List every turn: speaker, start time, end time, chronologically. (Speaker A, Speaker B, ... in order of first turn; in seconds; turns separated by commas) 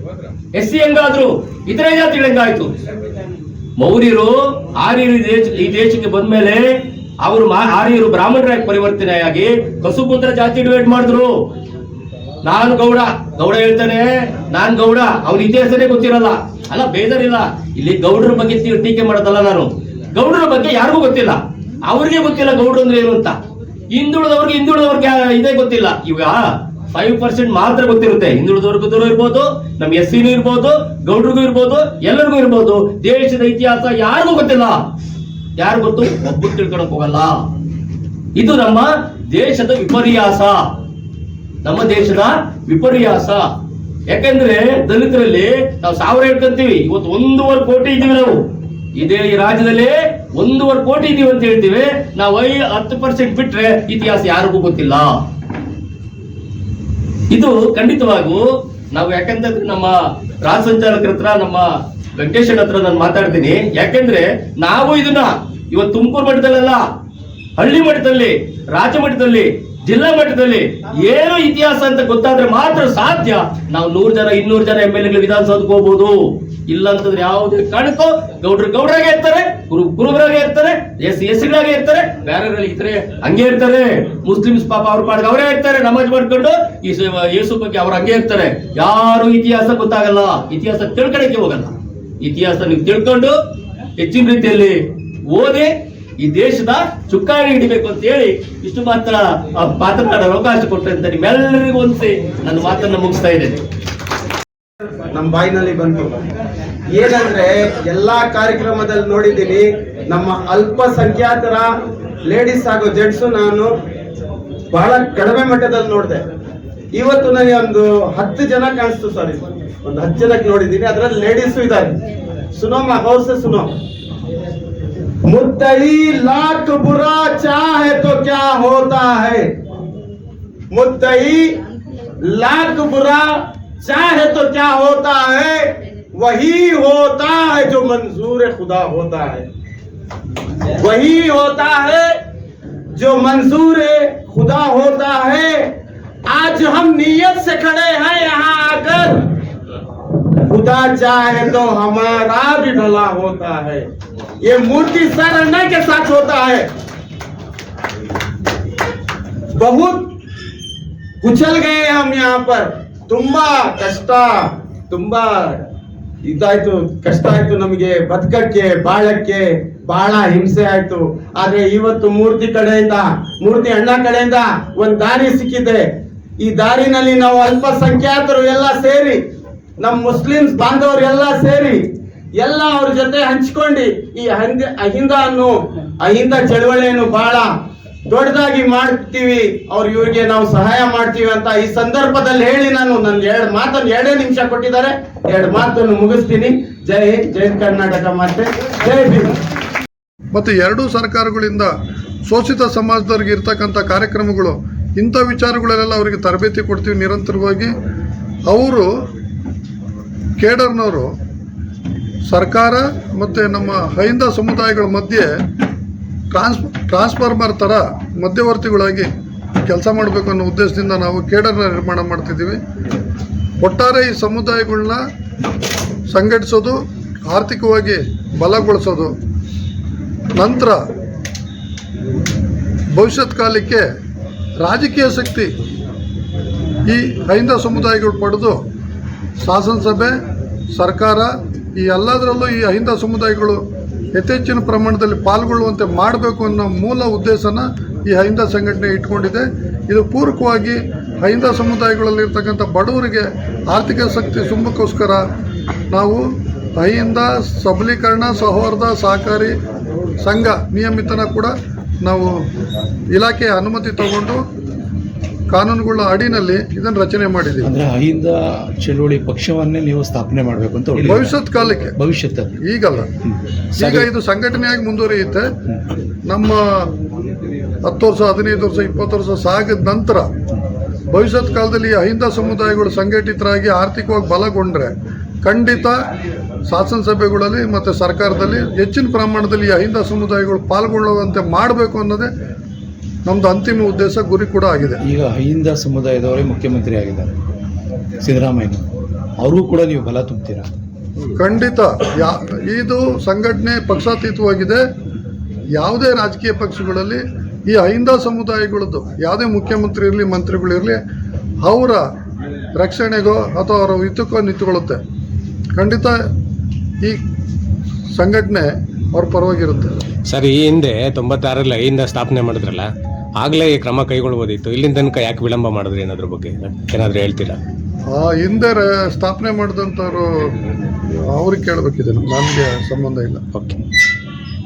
Speaker A: 0.5-2.7, Speaker A: 3.8-11.3, Speaker A: 12.4-23.4, Speaker A: 23.9-34.8, Speaker A: 35.6-37.4, Speaker A: 38.4-40.6, Speaker A: 41.6-43.5, Speaker A: 44.1-55.1, Speaker A: 57.3-66.8, Speaker A: 67.6-93.4, Speaker A: 94.0-103.6, Speaker B: 105.1-106.1, Speaker B: 106.9-111.7, Speaker B: 112.3-113.7, Speaker B: 114.7-116.2, Speaker B: 116.9-122.0, Speaker B: 122.5-123.7, Speaker B: 125.2-129.5, Speaker B: 130.7-131.5, Speaker B: 132.2-139.4, Speaker B: 140.8-142.1, Speaker B: 142.9-145.7, Speaker B: 146.3-149.2, Speaker B: 150.5-153.8, Speaker B: 154.4-156.7, Speaker B: 159.5-160.1, Speaker B: 161.2-165.6, Speaker B: 166.2-175.8, Speaker B: 176.4-179.2, Speaker B: 179.8-181.8, Speaker B: 182.4-187.5, Speaker B: 188.1-199.3, Speaker C: 200.3-201.7, Speaker C: 202.3-207.7, Speaker C: 208.5-208.9, Speaker C: 210.4-211.1, Speaker C: 212.3-215.3, Speaker C: 216.3-219.1, Speaker C: 219.7-222.6, Speaker C: 223.6-225.0, Speaker C: 226.1-226.8, Speaker C: 227.3-229.1, Speaker C: 230.4-230.8, Speaker C: 232.9-233.8, Speaker C: 234.6-235.5, Speaker C: 236.9-238.6, Speaker C: 239.4-240.1, Speaker C: 240.8-243.6, Speaker C: 244.1-255.2, Speaker C: 255.9-256.2, Speaker C: 256.8-259.5, Speaker C: 260.2-261.5, Speaker C: 262.0-262.3, Speaker C: 263.1-264.4, Speaker C: 265.5-267.7, Speaker D: 267.6-271.4, Speaker C: 271.0-271.9, Speaker D: 271.9-272.6, Speaker C: 272.6-273.1, Speaker D: 273.2-274.1, Speaker C: 273.7-275.5, Speaker C: 276.3-276.9, Speaker C: 277.9-280.3, Speaker C: 281.1-286.0, Speaker C: 286.7-292.3, Speaker C: 293.2-295.0, Speaker D: 295.0-297.4, Speaker D: 298.2-298.9, Speaker D: 299.4-300.7, Speaker C: 301.4-304.8, Speaker C: 305.8-311.0, Speaker C: 311.6-312.0, Speaker C: 312.8-315.0, Speaker C: 315.8-316.1, Speaker C: 318.1-319.9, Speaker E: 320.3-327.6, Speaker C: 328.1-330.5, Speaker C: 331.2-333.4, Speaker E: 333.5-333.8